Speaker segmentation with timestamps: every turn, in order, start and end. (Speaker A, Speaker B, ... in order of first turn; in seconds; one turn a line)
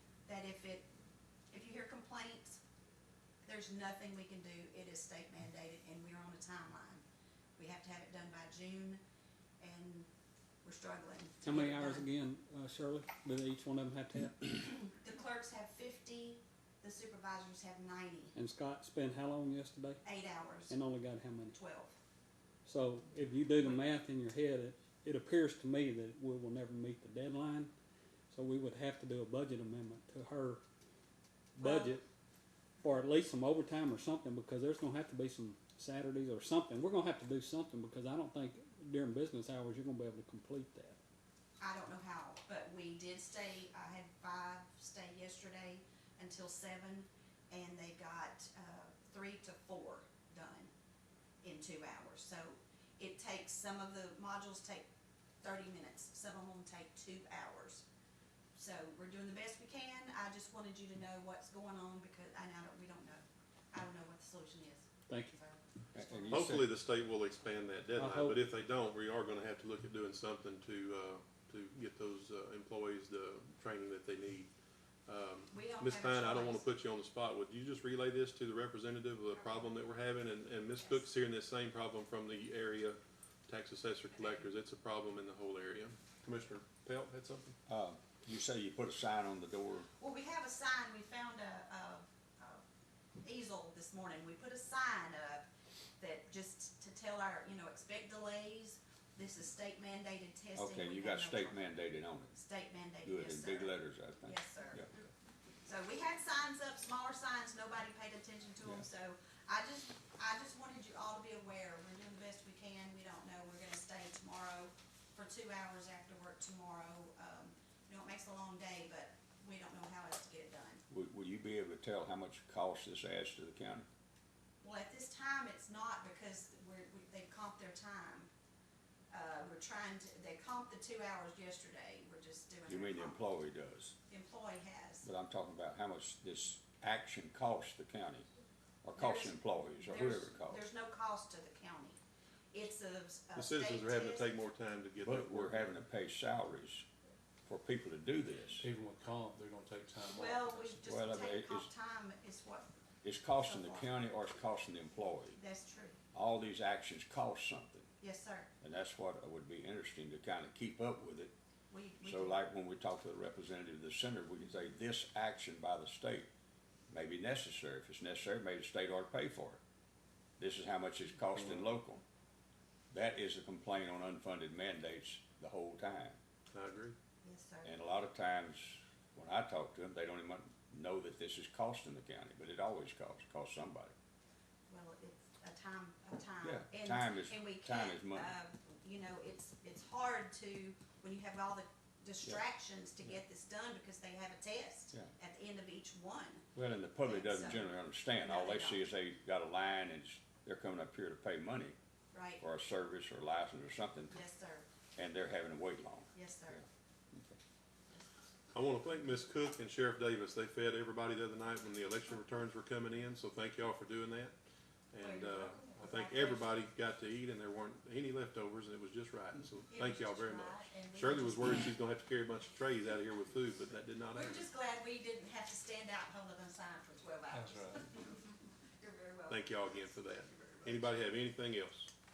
Speaker A: 0.3-0.9
Speaker A: 1.5-2.6
Speaker A: 3.5-7.0
Speaker A: 7.6-9.0
Speaker A: 9.6-10.1
Speaker A: 10.6-12.1
Speaker B: 11.4-14.5
Speaker A: 14.5-18.4
Speaker B: 18.4-20.0
Speaker A: 20.0-20.8
Speaker B: 20.7-21.6
Speaker A: 21.5-22.0
Speaker B: 22.6-27.7
Speaker B: 28.3-30.6
Speaker B: 31.6-32.0
Speaker A: 31.6-31.9
Speaker B: 32.8-41.0
Speaker A: 41.6-50.7
Speaker A: 51.4-54.9
Speaker A: 55.4-57.9
Speaker A: 58.5-66.5
Speaker B: 65.1-65.3
Speaker C: 65.9-66.7
Speaker D: 66.3-74.5
Speaker B: 68.0-68.4
Speaker D: 75.1-87.5
Speaker A: 75.5-76.6
Speaker A: 79.4-79.7
Speaker A: 84.1-84.5
Speaker C: 87.7-89.9
Speaker A: 90.0-92.6
Speaker A: 93.2-95.5
Speaker A: 96.0-101.7
Speaker C: 100.6-102.3
Speaker A: 102.3-104.9
Speaker C: 103.0-104.9
Speaker A: 105.7-120.8
Speaker C: 120.9-123.9
Speaker A: 124.6-128.3
Speaker A: 129.1-133.2
Speaker C: 132.7-133.9
Speaker A: 134.1-135.1
Speaker C: 135.0-138.3
Speaker C: 138.8-140.6
Speaker A: 139.0-142.0
Speaker A: 142.5-144.3
Speaker D: 143.3-145.8
Speaker C: 145.0-146.9
Speaker C: 147.5-148.7
Speaker E: 148.6-150.9
Speaker A: 150.0-152.7
Speaker C: 150.8-151.7
Speaker C: 153.0-155.4
Speaker A: 153.4-153.9
Speaker A: 155.4-156.0
Speaker C: 156.1-157.9
Speaker A: 158.0-158.5
Speaker C: 158.6-161.3
Speaker A: 161.7-162.4
Speaker C: 162.0-166.3
Speaker C: 166.9-169.6
Speaker C: 170.4-172.0
Speaker C: 172.9-176.2
Speaker D: 176.5-176.9
Speaker A: 177.2-177.7
Speaker C: 177.6-183.9
Speaker A: 184.7-196.5
Speaker C: 186.4-188.3
Speaker C: 196.6-201.8
Speaker A: 197.0-198.8
Speaker A: 202.1-202.4
Speaker C: 202.4-204.2
Speaker A: 204.1-204.7
Speaker C: 205.0-206.1
Speaker A: 206.1-206.6
Speaker D: 208.5-214.3
Speaker D: 214.9-224.5
Speaker A: 215.0-216.5
Speaker A: 219.7-221.8
Speaker A: 224.1-230.8
Speaker E: 227.3-227.8
Speaker D: 229.3-231.9